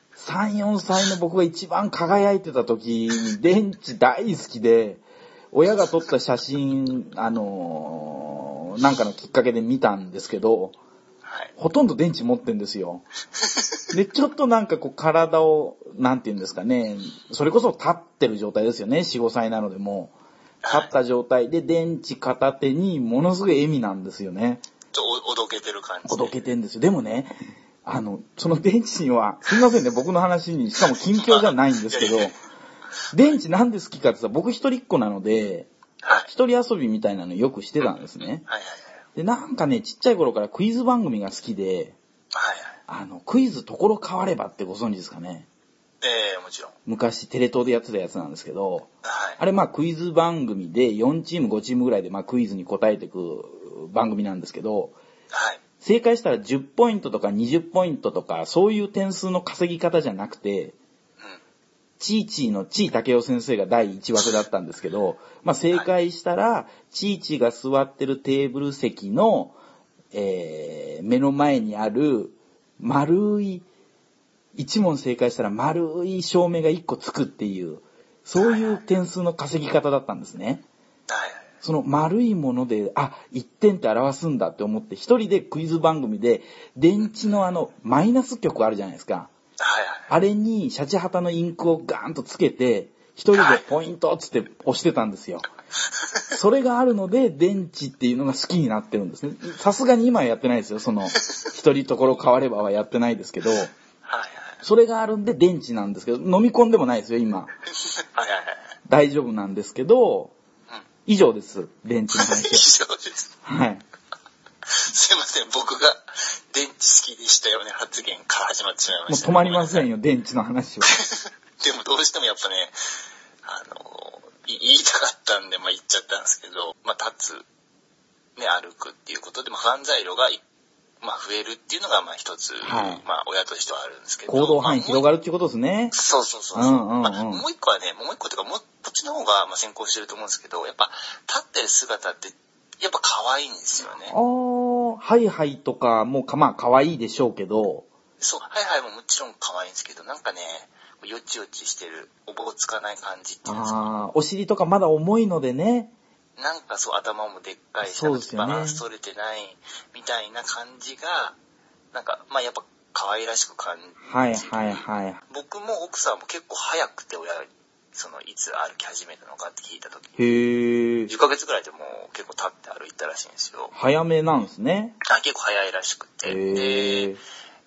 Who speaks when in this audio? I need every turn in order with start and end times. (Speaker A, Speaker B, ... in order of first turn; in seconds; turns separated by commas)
Speaker A: 0.2-10.8, Speaker B: 11.2-11.5, Speaker A: 11.6-13.0, Speaker B: 13.4-13.8, Speaker A: 13.9-20.1, Speaker B: 20.6-20.9, Speaker A: 20.7-24.6, Speaker B: 24.9-26.3, Speaker A: 26.0-27.3, Speaker A: 27.8-32.4, Speaker B: 31.2-32.3, Speaker A: 33.1-35.7, Speaker B: 36.0-36.3, Speaker A: 36.3-38.4, Speaker B: 37.8-38.8, Speaker A: 39.1-42.0, Speaker B: 42.3-42.7, Speaker A: 42.9-45.5, Speaker B: 46.0-46.7, Speaker A: 46.9-55.0, Speaker B: 49.0-49.4, Speaker B: 55.3-55.6, Speaker A: 55.8-60.8, Speaker A: 62.0-69.6, Speaker A: 70.1-73.7, Speaker A: 74.5-80.6, Speaker B: 78.3-78.8, Speaker B: 81.1-81.5, Speaker A: 81.6-89.3, Speaker B: 89.6-90.1, Speaker A: 90.1-95.5, Speaker B: 93.3-93.7, Speaker A: 96.3-103.7, Speaker B: 104.0-104.6, Speaker A: 104.6-107.5, Speaker B: 107.8-108.6, Speaker A: 108.9-110.3, Speaker A: 111.0-112.7, Speaker B: 112.1-113.3, Speaker A: 113.5-113.8, Speaker B: 114.7-119.9, Speaker A: 119.1-120.9, Speaker B: 120.9-122.7, Speaker B: 123.4-127.4, Speaker B: 128.3-130.4, Speaker B: 131.0-135.0, Speaker A: 132.6-133.0, Speaker A: 134.3-135.9, Speaker B: 135.9-144.1, Speaker A: 136.5-137.4, Speaker A: 144.1-147.9, Speaker B: 148.2-153.8, Speaker A: 153.4-155.9, Speaker B: 156.4-161.3, Speaker A: 157.8-158.8, Speaker B: 161.9-170.1, Speaker A: 164.0-165.2, Speaker A: 170.2-171.1, Speaker B: 171.1-173.7, Speaker A: 173.7-175.0, Speaker B: 175.0-177.1, Speaker A: 176.2-177.2